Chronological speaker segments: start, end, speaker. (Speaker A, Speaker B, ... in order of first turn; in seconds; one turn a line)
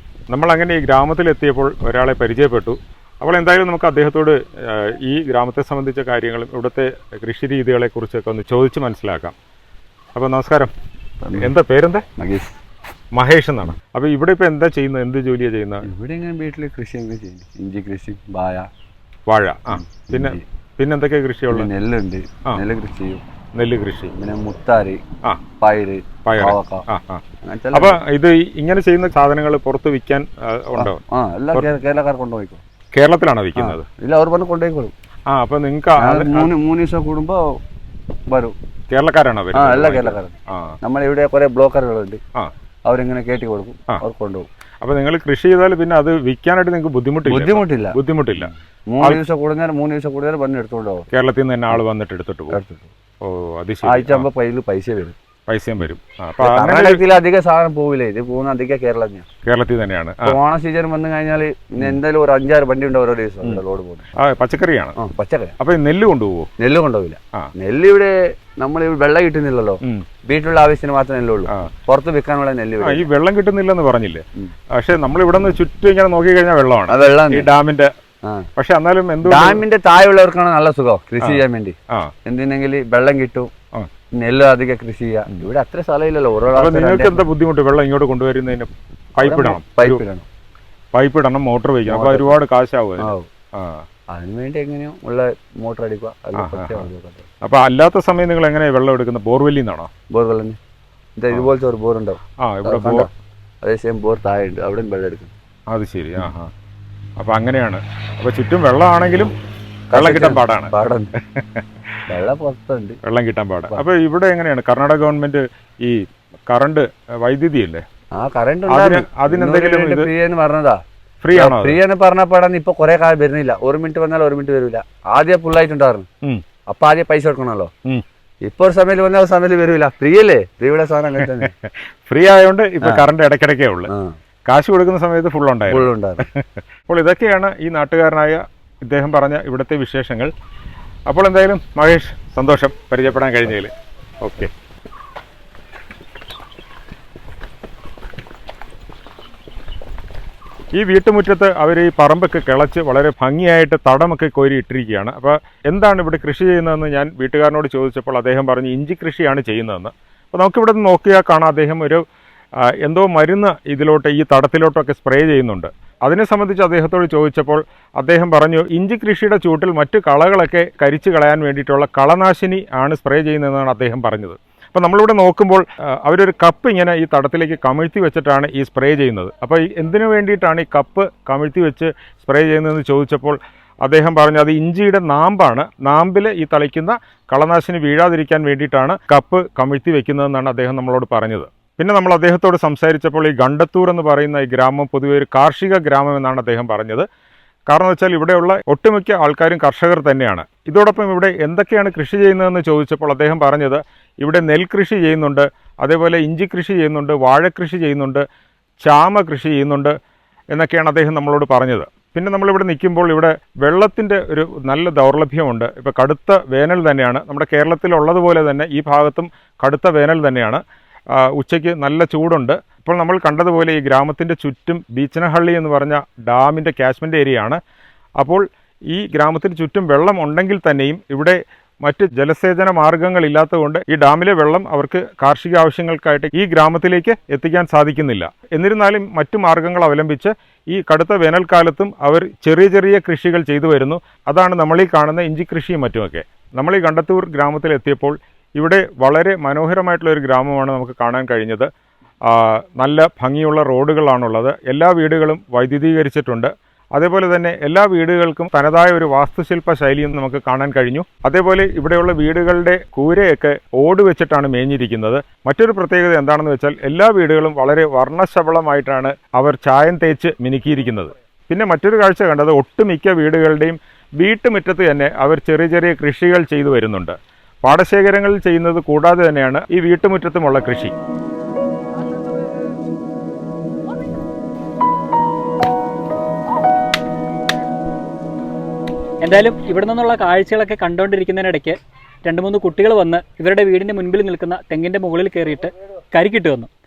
Speaker A: 0.3-9.3
Speaker A: 10.2-10.7
Speaker B: 11.2-11.5
Speaker A: 11.3-12.1
Speaker B: 12.2-12.5
Speaker A: 13.2-15.9
Speaker B: 15.8-18.7
Speaker A: 19.3-21.7
Speaker B: 19.7-20.4
Speaker B: 21.5-23.2
Speaker A: 23.6-24.1
Speaker B: 24.1-25.0
Speaker B: 25.6-26.9
Speaker A: 26.3-27.2
Speaker B: 27.4-28.0
Speaker A: 27.7-31.0
Speaker B: 30.8-32.6
Speaker A: 32.9-33.9
Speaker B: 33.6-34.9
Speaker A: 35.3-36.5
Speaker B: 36.0-37.6
Speaker B: 38.3-38.5
Speaker A: 38.9-40.8
Speaker B: 39.5-40.3
Speaker B: 40.8-42.2
Speaker B: 42.9-44.5
Speaker A: 44.8-49.2
Speaker B: 47.3-51.1
Speaker A: 51.1-52.6
Speaker B: 52.5-52.9
Speaker A: 53.2-54.3
Speaker B: 53.8-55.2
Speaker A: 55.5-57.0
Speaker B: 56.4-59.3
Speaker A: 59.5-60.4
Speaker B: 60.2-64.1
Speaker A: 64.2-65.0
Speaker B: 65.0-65.5
Speaker A: 65.6-66.5
Speaker B: 66.6-73.1
Speaker A: 72.8-74.2
Speaker A: 74.8-77.9
Speaker B: 76.9-77.5
Speaker A: 78.6-79.6
Speaker B: 79.2-83.5
Speaker A: 81.2-82.1
Speaker B: 84.1-87.2
Speaker A: 86.5-90.0
Speaker B: 89.2-90.3
Speaker A: 90.9-93.8
Speaker B: 91.9-92.4
Speaker B: 93.0-93.3
Speaker B: 94.1-97.2
Speaker A: 96.3-96.9
Speaker A: 97.4-99.9
Speaker B: 100.1-100.6
Speaker B: 101.2-103.1
Speaker A: 102.4-103.1
Speaker B: 103.6-105.3
Speaker A: 105.7-106.5
Speaker A: 107.2-109.3
Speaker B: 109.9-111.1
Speaker A: 109.9-110.7
Speaker A: 111.3-111.6
Speaker B: 112.1-113.0
Speaker A: 113.0-117.8
Speaker B: 118.1-120.8
Speaker A: 118.7-120.1
Speaker A: 121.2-121.8
Speaker B: 121.3-126.1
Speaker B: 126.7-127.7
Speaker B: 128.4-131.5
Speaker A: 132.1-133.9
Speaker B: 133.9-134.2
Speaker A: 134.5-140.3
Speaker B: 135.7-136.3
Speaker A: 141.1-144.5
Speaker A: 150.8-162.0
Speaker A: 162.6-197.1
Speaker A: 197.7-208.2
Speaker A: 208.8-209.9
Speaker A: 210.5-220.6
Speaker A: 221.1-227.6
Speaker A: 228.2-251.7
Speaker A: 252.2-280.9
Speaker C: 289.2-296.7